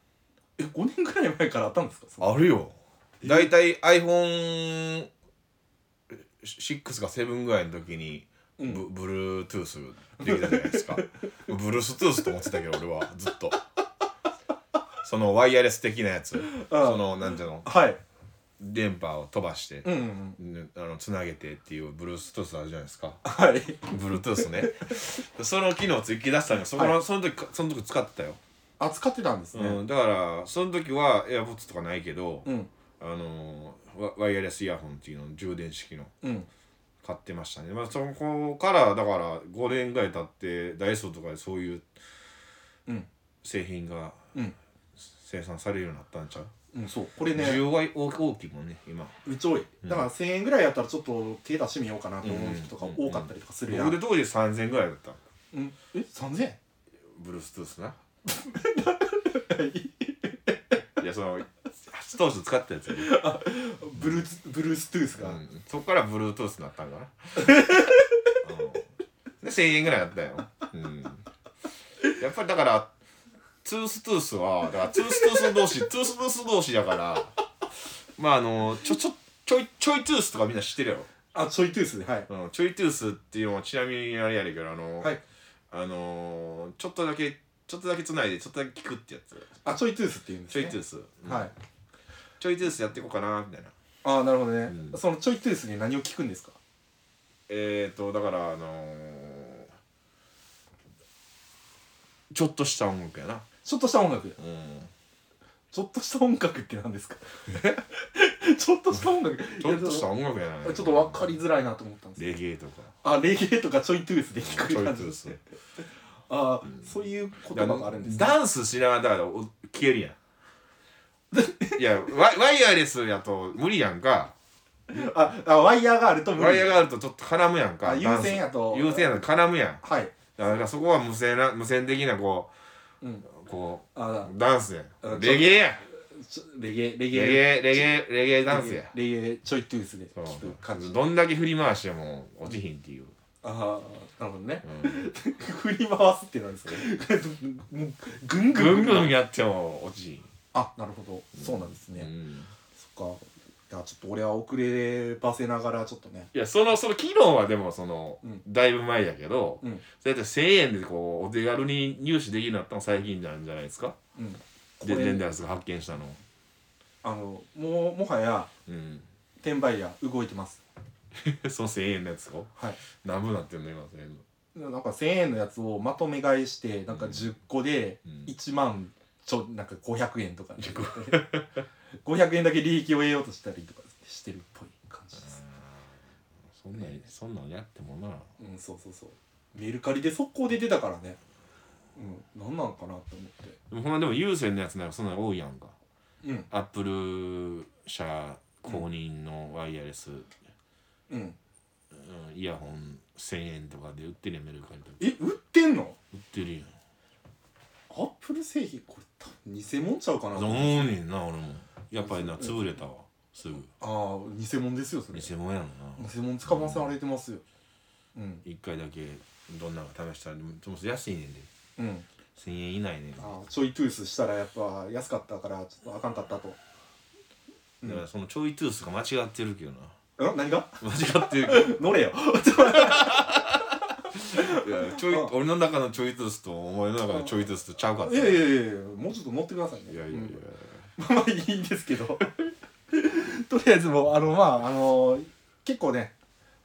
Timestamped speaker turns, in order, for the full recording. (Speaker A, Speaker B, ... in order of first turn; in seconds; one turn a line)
Speaker A: 0.6-2.3
Speaker B: 2.2-5.1
Speaker A: 3.2-3.5
Speaker B: 6.1-13.6
Speaker A: 8.6-8.8
Speaker A: 10.2-11.1
Speaker B: 15.0-17.7
Speaker A: 16.5-17.1
Speaker A: 17.6-18.0
Speaker B: 18.6-23.2
Speaker A: 19.8-20.4
Speaker A: 23.2-23.9
Speaker B: 23.9-28.4
Speaker A: 28.8-29.8
Speaker B: 29.5-32.5
Speaker A: 32.4-32.7
Speaker B: 33.0-36.1
Speaker A: 36.2-36.5
Speaker B: 37.0-41.8
Speaker B: 43.4-44.2
Speaker B: 45.0-46.5
Speaker A: 46.7-47.6
Speaker B: 47.3-49.1
Speaker A: 49.2-54.0
Speaker B: 52.2-55.2
Speaker A: 55.5-56.6
Speaker B: 57.1-58.0
Speaker A: 58.2-60.6
Speaker B: 61.0-63.2
Speaker A: 62.9-65.4
Speaker B: 65.2-67.6
Speaker A: 67.5-67.9
Speaker B: 68.4-68.8
Speaker B: 69.4-71.2
Speaker B: 72.2-72.9
Speaker B: 73.6-77.3
Speaker B: 78.2-81.1
Speaker A: 81.3-82.3
Speaker B: 82.3-85.1
Speaker B: 85.7-89.5
Speaker A: 89.6-91.5
Speaker B: 90.5-91.5
Speaker B: 92.4-93.7
Speaker A: 94.0-96.6
Speaker B: 94.7-94.9
Speaker B: 97.5-99.7
Speaker B: 102.3-103.5
Speaker A: 103.6-104.4
Speaker B: 104.4-104.9
Speaker A: 105.7-110.1
Speaker B: 109.6-111.3
Speaker A: 110.6-112.2
Speaker B: 112.2-112.9
Speaker A: 113.0-115.4
Speaker B: 114.4-115.4
Speaker A: 116.3-118.4
Speaker B: 117.5-120.2
Speaker A: 121.3-121.8
Speaker B: 121.8-124.3
Speaker A: 124.9-126.8
Speaker B: 126.3-129.8
Speaker A: 127.8-129.2
Speaker A: 129.8-130.1
Speaker B: 130.4-132.5
Speaker A: 133.0-133.3
Speaker B: 133.3-135.8
Speaker A: 133.9-134.3
Speaker A: 135.0-141.0
Speaker B: 137.1-138.9
Speaker B: 140.2-143.1
Speaker A: 143.4-149.1
Speaker B: 144.7-144.9
Speaker B: 148.5-150.3
Speaker A: 150.5-152.1
Speaker B: 151.4-152.5
Speaker A: 152.8-156.3
Speaker B: 156.3-164.0
Speaker A: 164.2-165.2
Speaker B: 164.8-166.2
Speaker A: 167.0-168.5
Speaker B: 168.7-169.1
Speaker A: 169.4-170.6
Speaker B: 171.2-174.2
Speaker A: 174.5-181.3
Speaker B: 176.9-177.3
Speaker B: 180.6-181.5
Speaker A: 182.0-185.4
Speaker B: 186.5-188.3
Speaker A: 188.4-191.2
Speaker A: 191.9-193.6
Speaker B: 193.7-195.7
Speaker A: 196.2-196.5
Speaker B: 196.5-200.3
Speaker A: 201.1-201.4
Speaker B: 201.9-205.0
Speaker A: 205.0-206.0
Speaker B: 206.1-206.7
Speaker A: 207.9-210.9
Speaker B: 210.3-213.7
Speaker A: 212.0-212.5
Speaker A: 213.8-215.3
Speaker B: 215.1-216.9
Speaker A: 216.0-217.4
Speaker A: 218.1-218.4
Speaker B: 218.4-221.5
Speaker A: 221.8-222.1
Speaker B: 222.3-223.3
Speaker A: 223.2-226.6
Speaker B: 227.8-229.9
Speaker A: 230.2-235.3
Speaker B: 230.8-231.8
Speaker B: 232.7-233.6
Speaker B: 234.2-238.4
Speaker A: 238.0-240.4
Speaker B: 239.9-240.8
Speaker A: 241.0-246.1